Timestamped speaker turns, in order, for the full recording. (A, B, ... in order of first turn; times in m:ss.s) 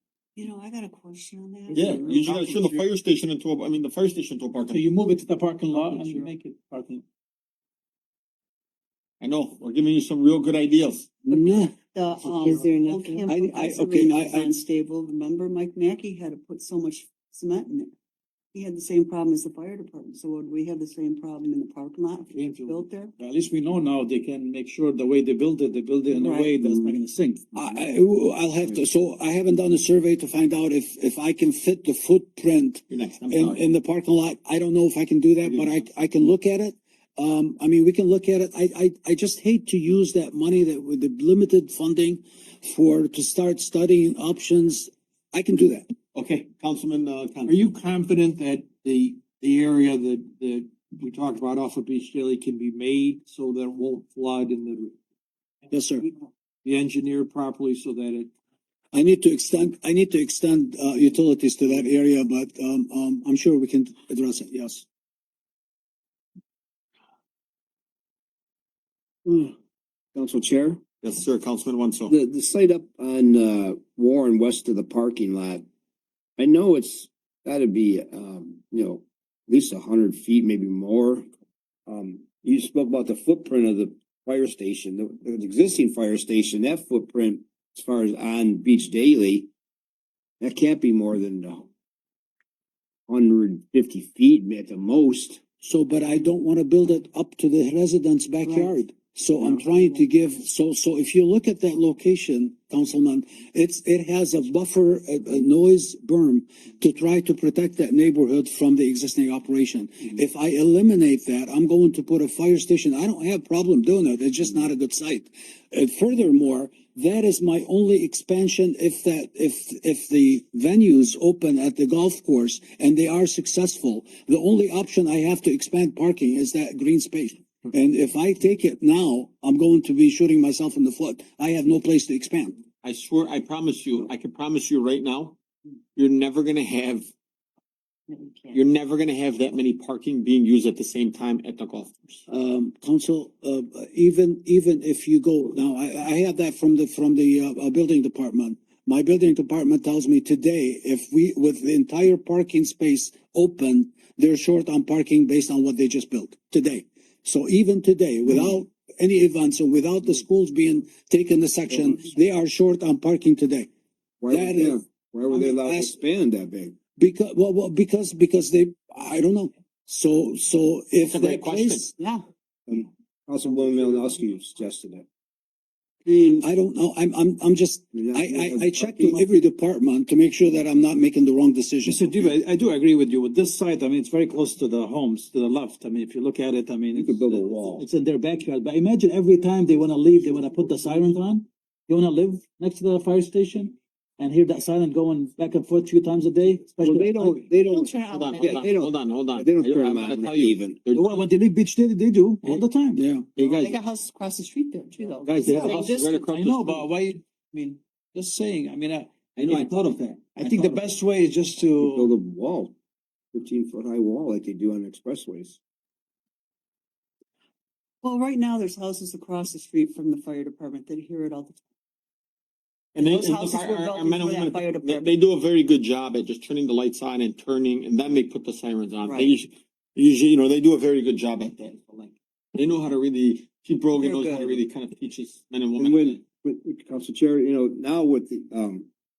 0:00.4-0:02.8 A
0:01.7-0:04.8 B
0:04.7-0:07.0 C
0:05.9-0:06.2 D
0:09.2-0:11.1 B
0:11.2-0:11.7 E
0:11.3-0:17.9 A
0:12.3-0:13.2 F
0:13.3-0:14.5 E
0:18.5-0:23.1 A
0:22.3-0:27.4 C
0:26.1-0:26.7 A
0:27.5-0:45.9 E
0:32.9-0:33.6 B
0:35.4-0:35.9 B
0:46.1-0:47.6 B
0:47.5-0:54.9 D
0:55.7-0:56.0 E
0:56.6-0:58.3 D
0:58.9-1:04.8 E
1:09.2-1:09.5 G
1:10.1-1:10.8 G
1:11.0-1:12.2 B
1:12.1-1:15.6 G
1:16.4-1:21.3 G
1:21.9-1:29.5 G
1:30.4-1:31.7 G
1:33.1-1:35.4 G
1:35.6-2:12.6 E
2:12.8-2:15.4 B
2:16.0-2:17.1 B
2:18.1-2:18.6 A
2:18.5-2:22.1 B
2:22.3-2:43.7 E
2:41.7-2:42.0 G
2:44.2-2:46.8 G
2:44.3-2:44.8 E
2:45.3-2:45.9 E
2:47.0-2:51.9 E
2:51.0-2:51.9 B
2:52.7-2:55.0 G
2:56.1-2:56.4 F
2:56.3-3:02.3 E
2:57.9-2:59.3 G
3:01.8-3:17.5 C
3:06.9-3:07.8 G
3:16.8-3:20.8 G
3:17.7-3:18.6 F
3:18.0-3:21.1 B
3:20.9-3:23.0 C
3:23.0-3:23.3 E
3:23.4-3:23.8 B
3:23.5-3:26.2 F
3:25.2-3:32.1 C
3:25.4-3:26.9 B
3:29.4-3:29.7 B
3:30.4-3:30.7 B
3:31.8-3:32.7 G
3:33.3-3:35.6 G
3:38.0-3:41.6 A
3:42.9-3:56.2 B
3:43.0-3:45.1 A
3:49.0-3:49.3 A
3:54.0-3:54.6 A
3:55.8-3:58.9 G